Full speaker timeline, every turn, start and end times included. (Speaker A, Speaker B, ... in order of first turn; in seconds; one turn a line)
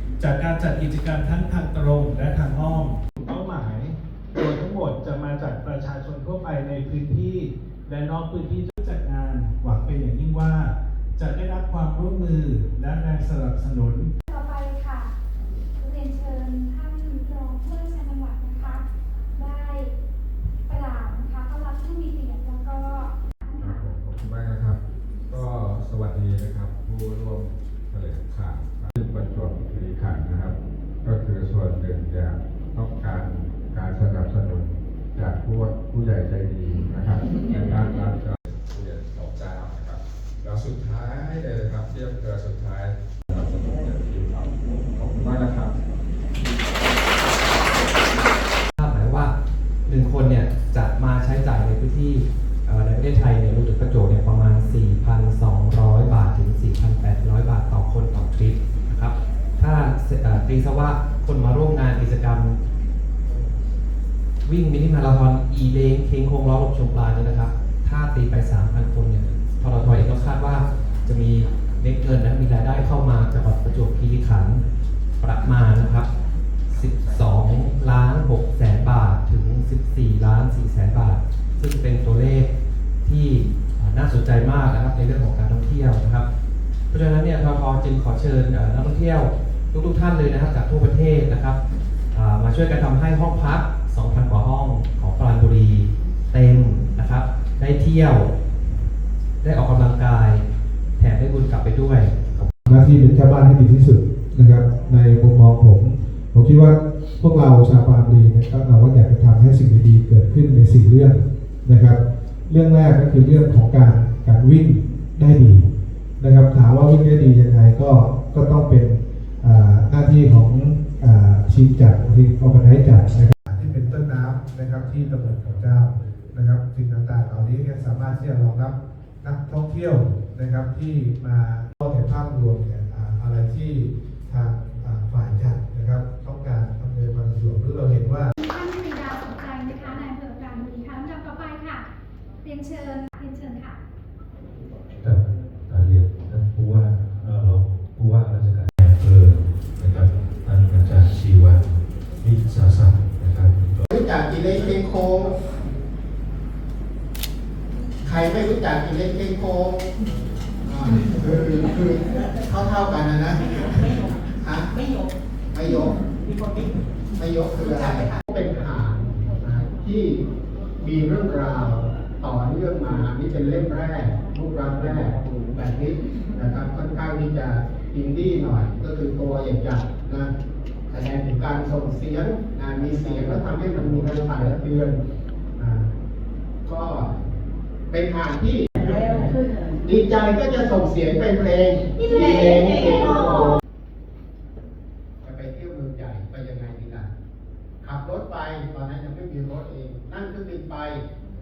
Speaker A: 0.2-14.1
Speaker B: 14.3-15.1
Speaker B: 15.8-19.9
Speaker B: 20.7-23.8
Speaker C: 23.6-45.8
Speaker D: 48.8-49.3
Speaker D: 49.9-62.6
Speaker D: 64.5-74.6
Speaker D: 75.2-76.1
Speaker D: 76.7-82.5
Speaker C: 76.8-77.4
Speaker D: 83.0-86.3
Speaker D: 86.9-91.6
Speaker D: 92.1-98.3
Speaker D: 99.4-100.4
Speaker D: 101.0-102.5
Speaker E: 102.7-115.7
Speaker E: 116.2-138.3
Speaker B: 138.4-141.9
Speaker B: 142.4-143.8
Speaker F: 145.0-151.6
Speaker F: 152.2-153.8
Speaker G: 153.9-155.4
Speaker G: 158.0-159.9
Speaker G: 160.6-165.0
Speaker G: 165.5-170.2
Speaker G: 170.8-180.3
Speaker G: 180.9-185.0
Speaker G: 185.6-185.9
Speaker G: 186.7-187.1
Speaker G: 187.9-193.6
Speaker G: 195.2-197.1
Speaker G: 197.8-201.0